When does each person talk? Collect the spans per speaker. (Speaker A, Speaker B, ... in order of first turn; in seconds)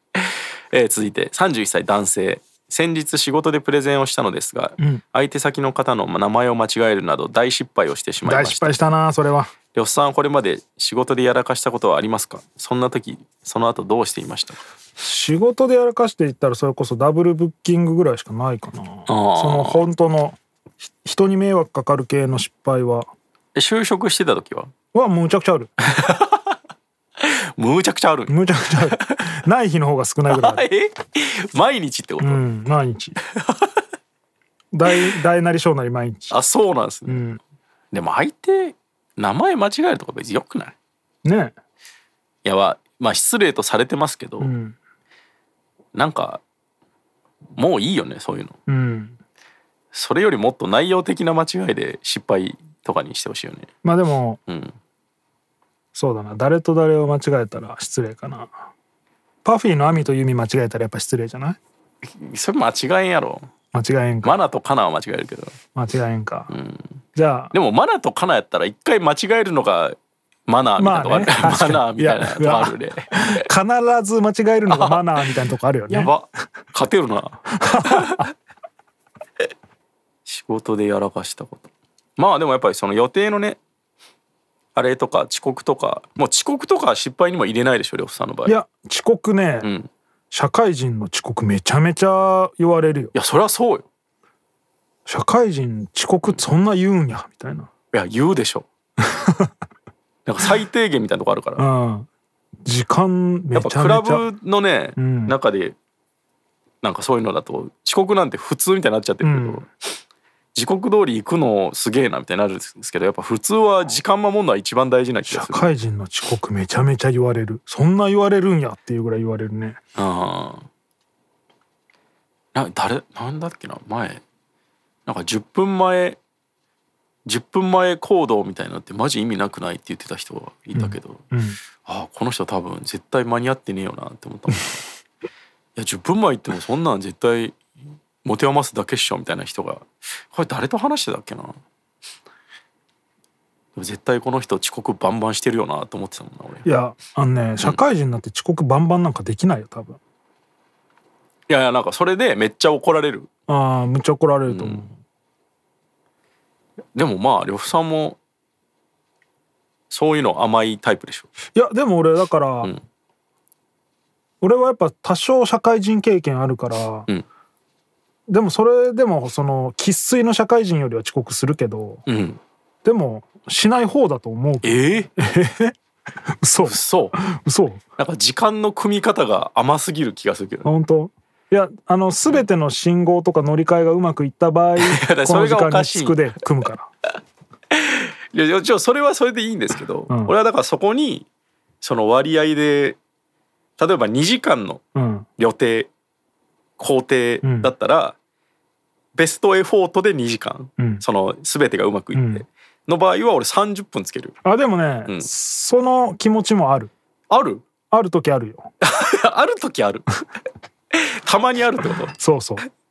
Speaker A: 0.2-8.8, 9.7-14.6, 19.1-19.9, 23.5-24.7, 25.9-26.5, 27.2-29.2, 30.3-32.4, 33.4-33.8, 36.3-37.2, 37.9-40.7, 42.4-44.5, 45.9-46.4, 47.5-48.5, 49.9-53.7, 54.5-54.8, 62.0-63.5, 64.2-65.5, 66.5-66.8, 67.5-70.0, 70.5-73.5, 74.7-75.0, 75.9-78.2, 80.2-83.6, 84.7-88.6, 89.6-89.9, 93.1-93.8, 97.9-98.7, 100.2-101.7, 103.5-105.8, 106.8-109.7, 110.5-115.7, 120.0-120.7, 122.5-124.2, 125.0-126.2, 127.2-131.2, 131.8-134.8, 135.8-137.6, 138.2-141.6, 143.8-146.6, 151.5-153.3, 154.5-154.8, 156.9-158.2, 159.9-161.3, 172.1-172.4, 174.6-175.1, 176.6-177.2, 178.0-180.7, 184.8-186.3, 187.7-191.2, 191.8-193.0, 193.8-194.8, 195.4-195.9, 196.8-198.2, 199.1-204.4, 207.3-207.6, 208.8-210.1, 210.9-212.1
Speaker B: 8.2-9.5, 15.0-23.1, 24.9-25.7, 28.3-30.6, 32.2-33.2, 34.7-36.4, 37.1-37.4, 41.2-41.5, 44.4-44.8, 48.7-49.1, 53.8-54.4, 55.9-58.6, 59.4-61.6, 63.7-64.4, 65.7-66.5, 67.1-67.5, 70.8-76.1, 77.6-78.3, 88.4-89.7, 90.3-93.1, 95.0-97.7, 99.1-99.5, 101.6-102.1, 102.6-104.2, 105.0-105.3, 109.2-109.7, 115.3-119.8, 130.7-131.6, 146.6-150.0, 153.5-154.9, 161.5-162.7, 164.4-167.1, 168.3-172.0, 172.8-175.7, 176.4-177.8, 180.6-186.9, 194.9-195.3, 197.4-197.7, 200.8-201.0, 202.1-202.4, 204.4-206.9, 207.9-208.7, 212.1-212.7